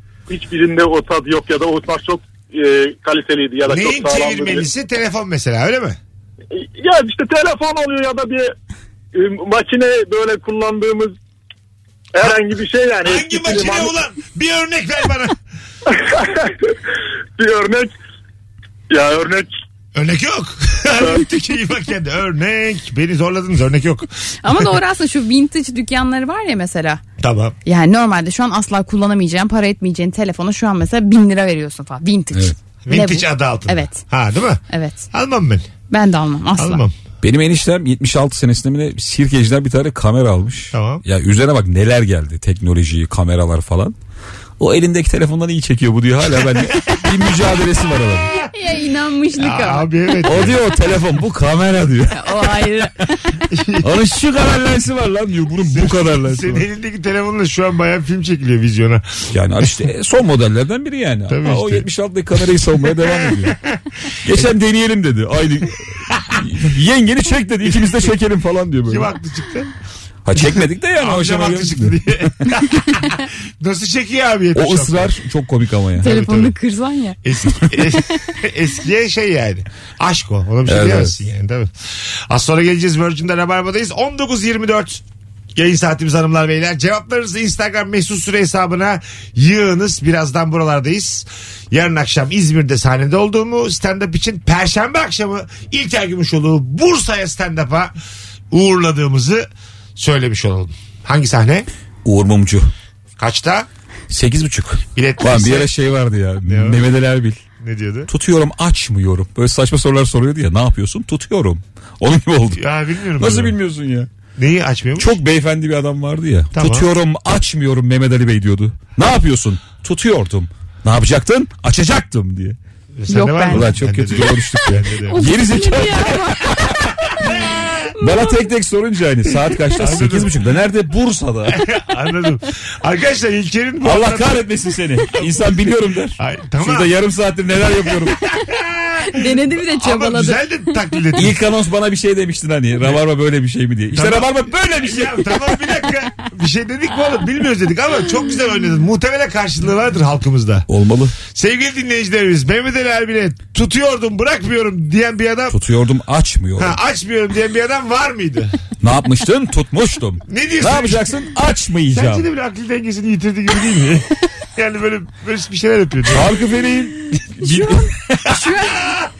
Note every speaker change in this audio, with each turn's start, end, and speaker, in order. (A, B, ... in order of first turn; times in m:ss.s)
0:00.3-0:04.6 A
0:03.6-0:06.0 B
0:06.5-0:08.5 A
0:09.1-0:11.1 A
0:12.1-0:13.9 A
0:13.0-0:15.4 B
0:15.9-0:16.7 A
0:17.4-0:17.9 A
0:18.9-0:19.5 A
0:19.9-0:24.6 B
0:21.0-0:21.2 A
0:24.4-0:27.0 C
0:27.2-0:27.6 B
0:27.6-0:34.0 C
0:32.8-0:35.7 B
0:34.7-0:35.0 C
0:35.9-0:36.8 C
0:36.6-0:36.9 B
0:37.2-0:44.0 D
0:40.7-0:41.0 B
0:44.6-0:48.3 D
0:46.8-0:47.5 B
0:48.2-0:48.5 B
0:48.5-0:49.9 C
0:49.4-0:50.6 B
0:50.2-0:52.5 D
0:52.1-0:53.3 C
0:53.5-0:53.9 B
0:53.8-0:56.6 D
0:55.7-0:59.7 B
0:59.3-1:03.6 D
1:01.3-1:01.9 B
1:02.8-1:03.8 B
1:04.2-1:09.1 D
1:07.6-1:08.1 B
1:08.9-1:09.7 B
1:10.2-1:12.3 D
1:10.3-1:15.1 B
1:14.5-1:16.2 D
1:16.0-1:17.2 C
1:16.0-1:16.5 B
1:17.2-1:21.7 B
1:20.6-1:21.2 D
1:22.3-1:25.0 B
1:25.5-1:37.9 B
1:38.5-1:41.7 B
1:42.0-1:42.7 D
1:43.2-1:43.7 B
1:44.1-1:47.4 D
1:44.9-1:45.7 B
1:46.4-1:46.8 B
1:47.6-1:48.1 B
1:48.1-1:52.6 D
1:52.6-1:53.6 B
1:53.2-1:54.1 D
1:54.4-1:55.2 B
1:55.0-2:02.6 D
1:56.5-1:56.9 B
2:03.0-2:05.3 B
2:03.1-2:03.7 C
2:03.5-2:06.9 D
2:05.1-2:06.8 C
2:07.3-2:07.8 B
2:08.0-2:08.3 C
2:08.0-2:11.6 D
2:09.7-2:10.5 B
2:11.5-2:14.5 B
2:13.8-2:18.2 D
2:16.2-2:16.9 B
2:18.2-2:21.4 B
2:19.0-2:20.4 C
2:21.2-2:25.4 D
2:23.9-2:30.7 B
2:30.7-2:31.2 D
2:31.3-2:35.6 B
2:35.5-2:36.8 D
2:36.6-2:38.6 B
2:38.8-2:42.3 D
2:40.3-2:41.2 B
2:41.9-2:46.3 B
2:46.1-2:48.0 D
2:47.4-2:48.9 C
2:48.5-2:49.0 B